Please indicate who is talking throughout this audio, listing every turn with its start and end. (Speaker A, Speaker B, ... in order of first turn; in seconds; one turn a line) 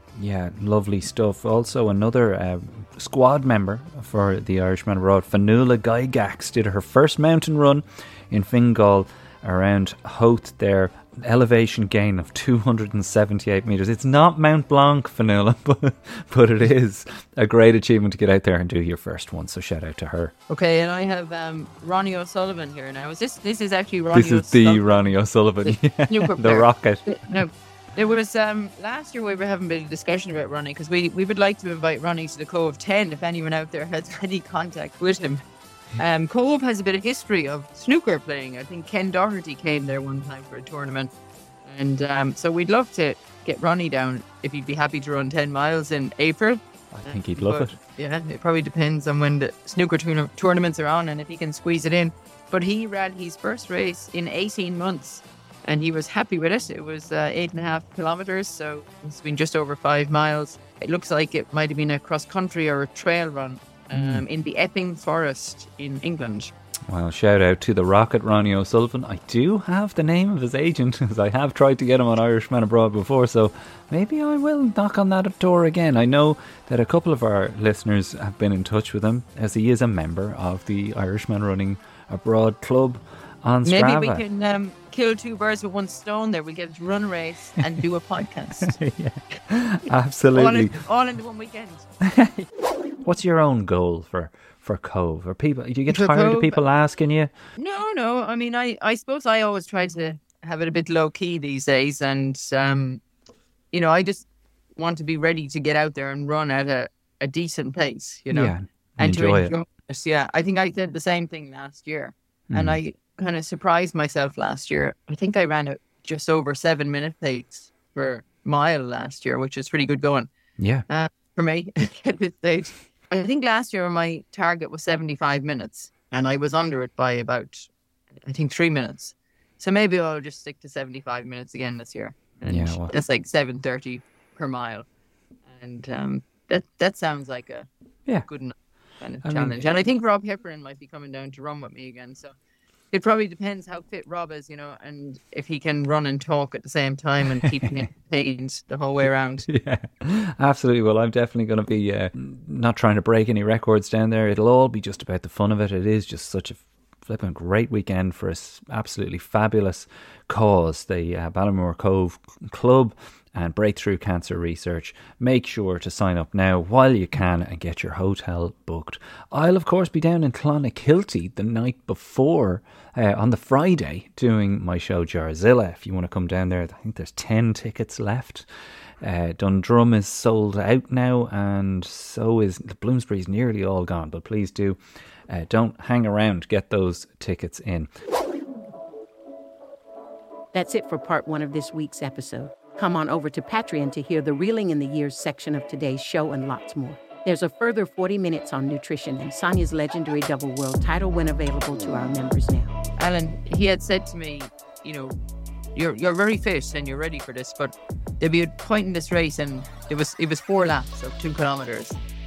Speaker A: 0.1-20.3
Speaker B: 20.5-25.0
Speaker A: 24.1-27.4
Speaker B: 25.6-35.4
Speaker B: 36.0-41.1
Speaker B: 41.6-66.5
Speaker A: 46.9-47.8
Speaker A: 63.9-64.2
Speaker A: 66.9-84.2
Speaker B: 83.6-88.8
Speaker A: 88.6-90.8
Speaker B: 90.3-91.9
Speaker A: 92.0-92.5
Speaker A: 93.0-97.3
Speaker B: 95.9-96.6
Speaker B: 97.5-103.0
Speaker B: 103.7-120.3
Speaker A: 108.3-109.5
Speaker A: 112.5-112.8
Speaker A: 120.6-120.8
Speaker B: 120.9-127.7
Speaker B: 128.2-134.8
Speaker A: 132.5-132.9
Speaker B: 135.5-137.7
Speaker B: 138.2-142.3
Speaker A: 139.2-139.6
Speaker B: 142.9-149.5
Speaker A: 149.5-178.5
Speaker A: 179.0-187.9
Speaker C: 190.5-202.7
Speaker B: 203.0-205.2
Speaker B: 205.7-212.0